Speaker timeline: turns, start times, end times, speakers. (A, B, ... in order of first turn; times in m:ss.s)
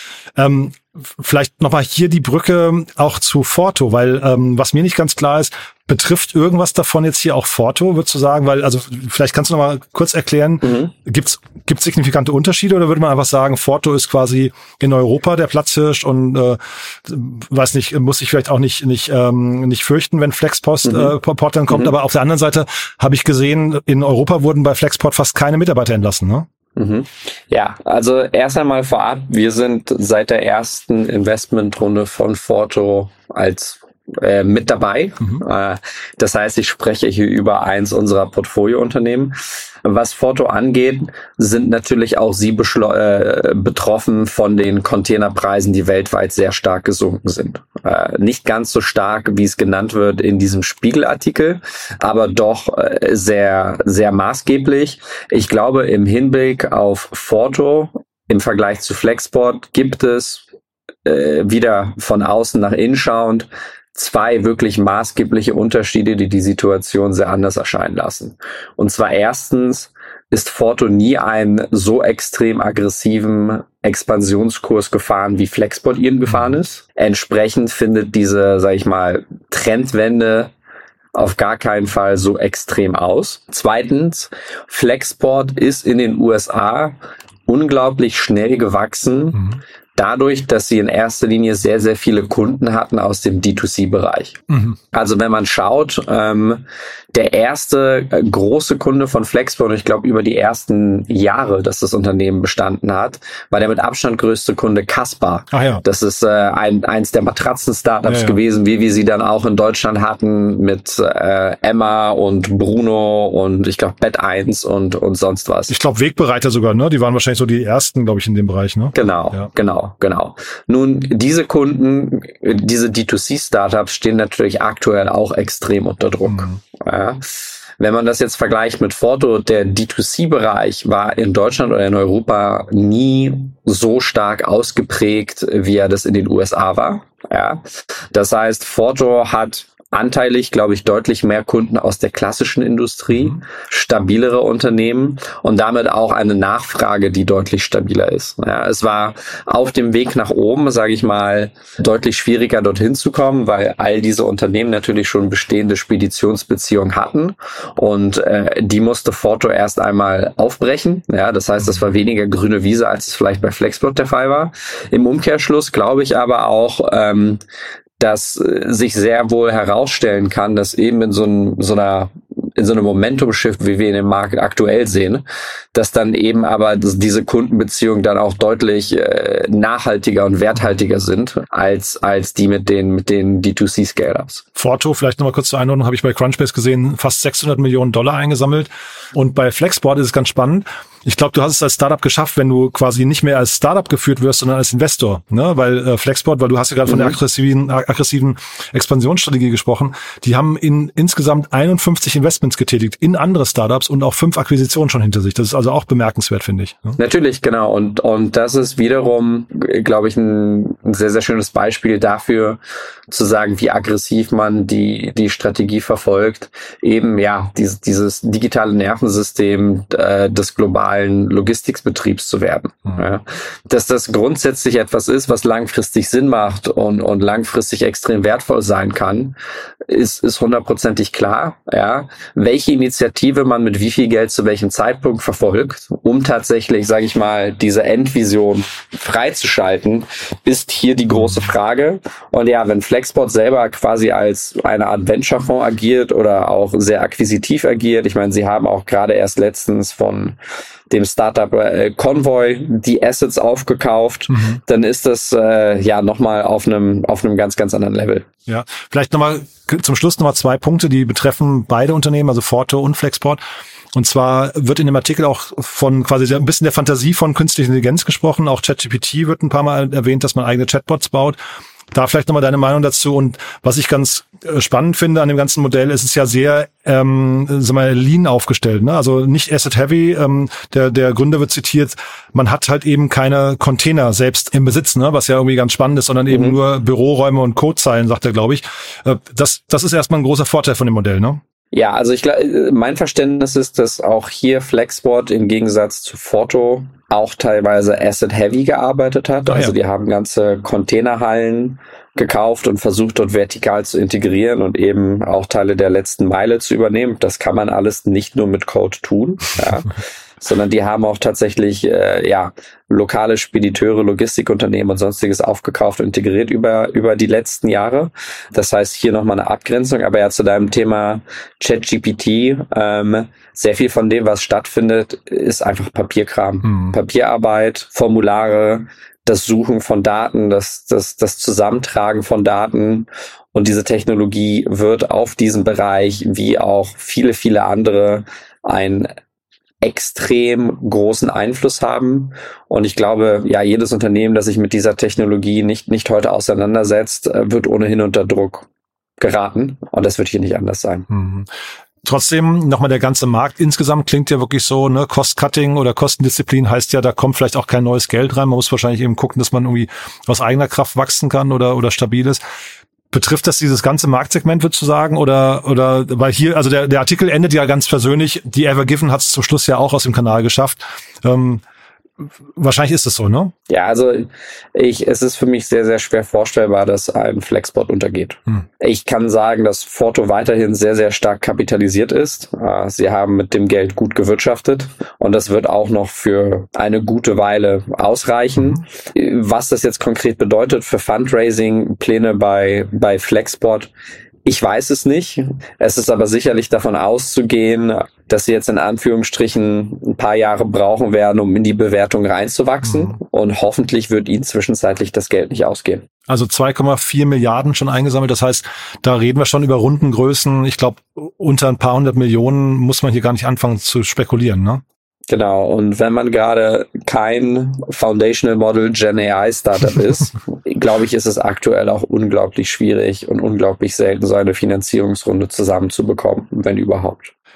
0:00.4-0:26.4 A
0:10.6-0:10.9 B
0:20.8-0:21.1 B
0:26.8-1:00.4 B
1:01.0-1:20.5 B
1:21.1-1:27.0 B
1:27.5-1:34.4 B
1:34.5-1:34.8 A
1:34.9-1:55.7 B
1:45.5-1:45.8 A
1:48.0-1:48.4 A
1:55.7-1:59.5 A
1:58.9-2:47.4 B
2:06.3-2:06.6 A
2:48.0-3:04.4 B
3:04.6-3:27.0 A
3:16.9-3:17.2 B
3:27.0-4:10.4 B
4:10.9-4:18.3 B
4:14.3-4:14.6 A
4:18.5-4:23.4 A
4:23.9-4:31.4 A
4:31.9-4:51.4 A
4:46.3-4:46.6 B
4:51.7-5:39.1 B
4:59.5-4:59.7 A
5:26.6-5:26.9 A
5:39.8-5:48.7 B
5:49.2-5:51.0 B
5:51.1-5:51.5 A
5:52.0-6:02.4 A
6:03.1-6:11.6 A
6:12.5-6:13.5 A
6:13.7-6:33.9 B
6:34.4-6:46.0 B
6:46.3-6:54.8 A
6:55.3-7:07.3 B